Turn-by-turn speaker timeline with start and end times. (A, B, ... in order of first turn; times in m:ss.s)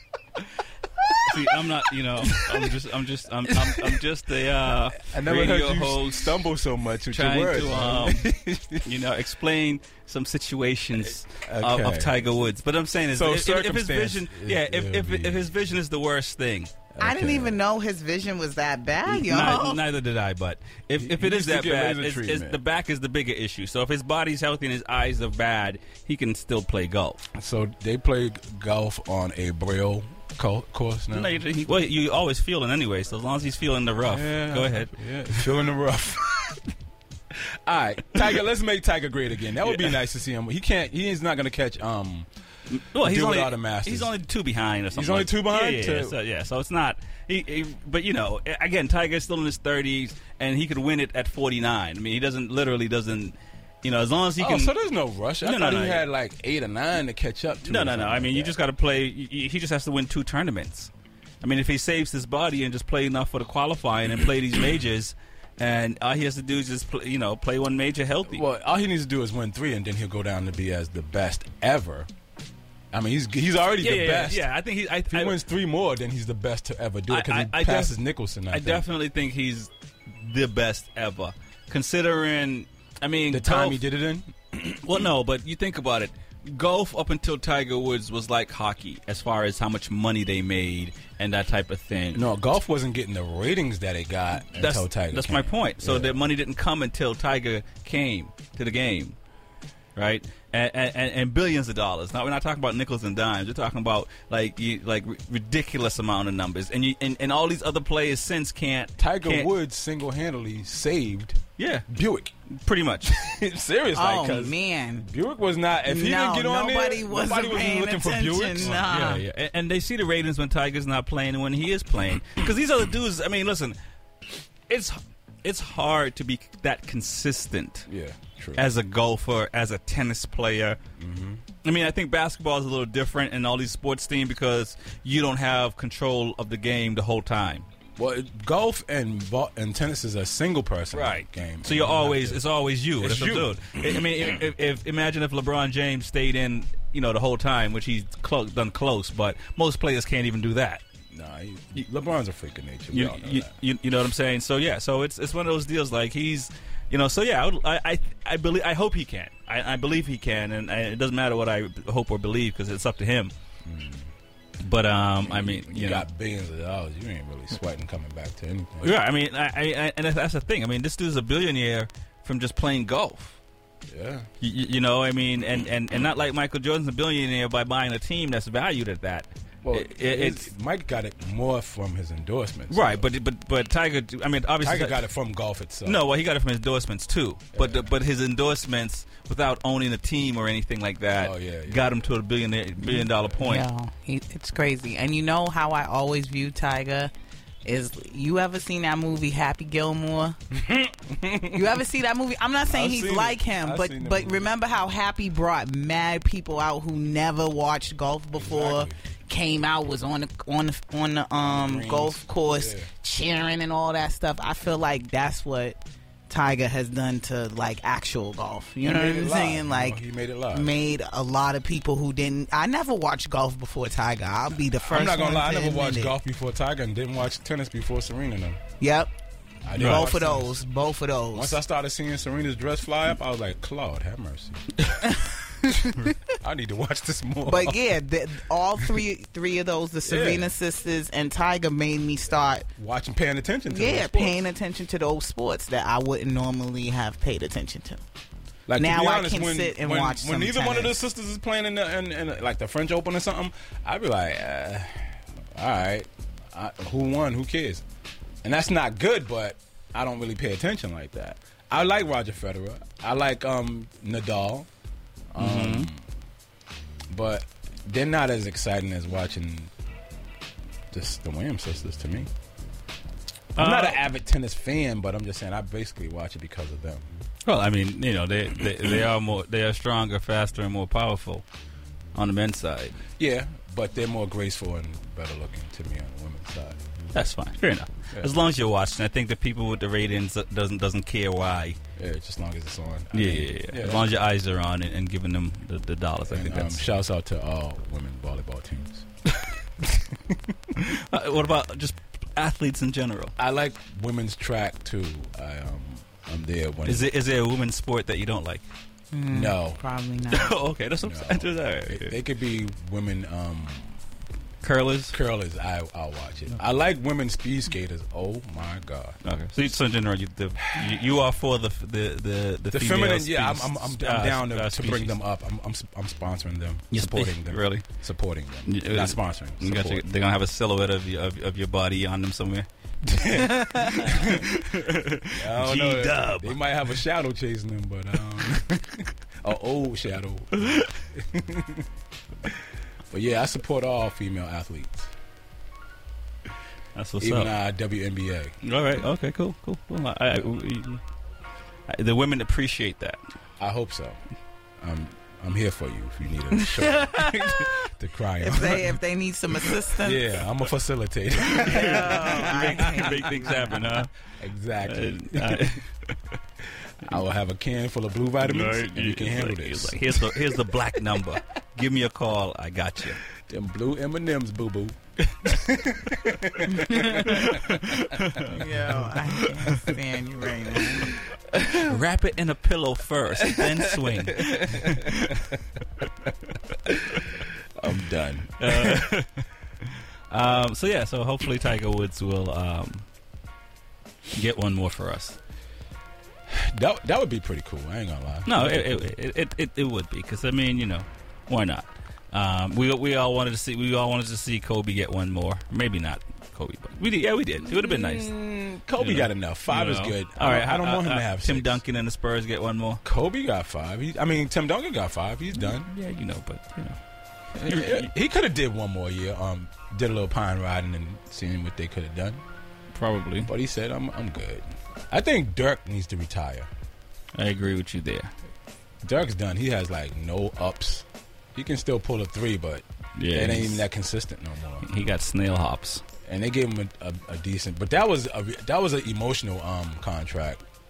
0:01.0-0:02.8 A
0:01.3-0:06.4 B
0:03.5-0:04.0 A
0:05.0-0:09.0 A
0:07.1-0:08.3 B
0:08.8-0:16.7 B
0:11.1-0:12.2 A
0:13.1-0:15.5 A
0:16.9-0:17.6 A
0:17.0-0:19.8 C
0:19.1-0:27.3 B
0:21.0-0:22.6 A
0:27.4-0:31.4 A
0:31.1-0:34.9 B
0:34.0-0:36.6 A
0:37.4-0:42.3 A
0:39.6-0:40.0 B
0:42.7-0:54.7 B
0:43.0-0:44.1 A
0:44.9-0:46.2 A
0:54.4-0:58.6 A
0:55.4-0:56.0 B
0:57.6-1:00.9 B
1:01.4-1:08.4 B
1:08.3-1:12.1 A
1:12.9-1:14.5 A
1:13.8-1:15.4 B
1:15.1-1:18.9 A
1:17.1-1:18.0 B
1:18.5-1:23.8 B
1:23.3-1:24.8 A
1:24.8-1:32.3 B
1:32.1-1:36.2 A
1:34.5-1:39.2 B
1:40.0-1:49.5 B
1:49.0-1:52.3 A
1:51.6-1:51.9 B
1:52.5-1:53.1 B
1:53.0-1:59.0 A
1:54.0-1:55.1 C
1:55.9-1:59.2 C
1:58.6-2:03.8 B
2:04.7-2:07.9 B
2:07.9-2:08.7 A
2:08.6-2:10.8 B
2:11.0-2:11.4 A
2:11.6-2:17.7 B
2:18.0-2:22.4 A
2:20.9-2:30.8 B
2:23.0-2:24.4 A
2:31.1-2:33.5 A
2:32.9-2:43.3 B
2:43.6-2:44.1 A
2:44.6-2:46.0 B
2:45.2-2:49.0 A
2:48.8-2:53.4 B
2:53.9-2:54.3 A
2:54.4-3:00.5 B
2:59.6-3:03.1 A
3:02.7-3:05.0 B
3:04.6-3:06.0 A
3:05.8-3:13.6 B
3:07.6-3:07.9 A
3:11.1-3:12.1 A
3:13.4-3:17.1 C
3:17.6-3:20.4 C
3:20.5-3:21.8 A
3:21.5-3:35.8 C
3:22.7-3:24.5 A
3:28.4-3:29.0 A
3:31.4-3:32.9 A
3:36.3-3:40.0 C
3:38.8-3:40.7 A
3:40.5-3:46.2 C
3:44.8-3:48.6 A
3:48.8-3:49.1 C
3:49.6-3:50.5 A
3:49.7-3:51.6 C
3:49.8-3:50.1 B
3:51.3-3:54.8 A
3:56.3-3:57.8 A
3:57.5-4:02.7 C
4:00.1-4:00.5 A
4:02.8-4:04.4 A
4:03.7-4:08.0 C
4:08.7-4:17.8 A
4:08.8-4:11.0 C
4:18.4-4:24.7 A
4:25.3-4:26.0 A
4:25.4-4:25.9 B
4:27.1-4:29.7 A
4:30.9-4:32.3 A
4:33.6-4:34.0 B
4:33.6-4:37.1 A
4:37.4-4:41.4 B
4:42.2-4:43.0 B
4:43.2-4:46.8 A
4:47.1-4:51.8 B
4:52.0-4:54.1 A
4:53.1-4:56.9 B
4:56.3-4:59.1 A
4:59.8-5:00.5 A
5:00.8-5:03.4 B
5:03.4-5:07.1 A
5:06.8-5:08.6 B
5:09.1-5:10.5 C
5:09.3-5:09.8 A
5:10.3-5:12.2 B
5:11.0-5:14.0 A
5:14.6-5:15.2 B
5:15.1-5:19.2 A
5:19.2-5:25.2 B
5:22.7-5:30.0 A
5:26.9-5:27.9 B
5:28.7-5:32.7 B
5:33.0-5:34.5 A
5:33.8-5:36.6 B
5:35.4-5:41.9 A
5:40.6-5:40.9 B
5:43.1-5:45.1 A
5:47.0-5:47.5 B
5:47.2-5:48.6 A
5:48.6-5:51.0 B
5:51.9-5:53.2 B
5:53.6-5:54.2 A
5:54.8-5:59.0 A
5:57.0-5:57.4 C
5:58.4-6:00.3 C
6:00.0-6:03.0 A
6:01.6-6:04.0 C
6:01.6-6:04.1 B
6:04.4-6:05.7 A
6:04.8-6:06.1 B
6:07.0-6:10.6 A
6:08.4-6:13.2 B
6:13.5-6:18.0 A
6:16.7-6:17.4 C
6:17.3-6:18.6 B
6:18.5-6:21.1 C
6:21.7-6:25.5 B
6:23.4-6:25.2 A
6:26.9-6:27.4 B
6:27.8-6:29.1 A
6:28.6-6:29.5 B
6:30.3-6:33.1 B
6:34.4-6:35.4 B
6:36.5-6:39.1 A
6:38.5-6:48.3 B
6:47.6-6:51.8 A
6:49.0-6:53.0 B
6:53.0-6:55.9 A
6:55.6-6:57.0 B
6:57.6-6:58.1 B
6:57.6-7:02.4 A
7:02.9-7:03.5 B
7:03.4-7:06.7 A
7:07.4-7:08.3 B
7:09.0-7:14.9 A
7:13.2-7:13.8 B
7:14.8-7:16.0 B
7:16.2-7:20.6 A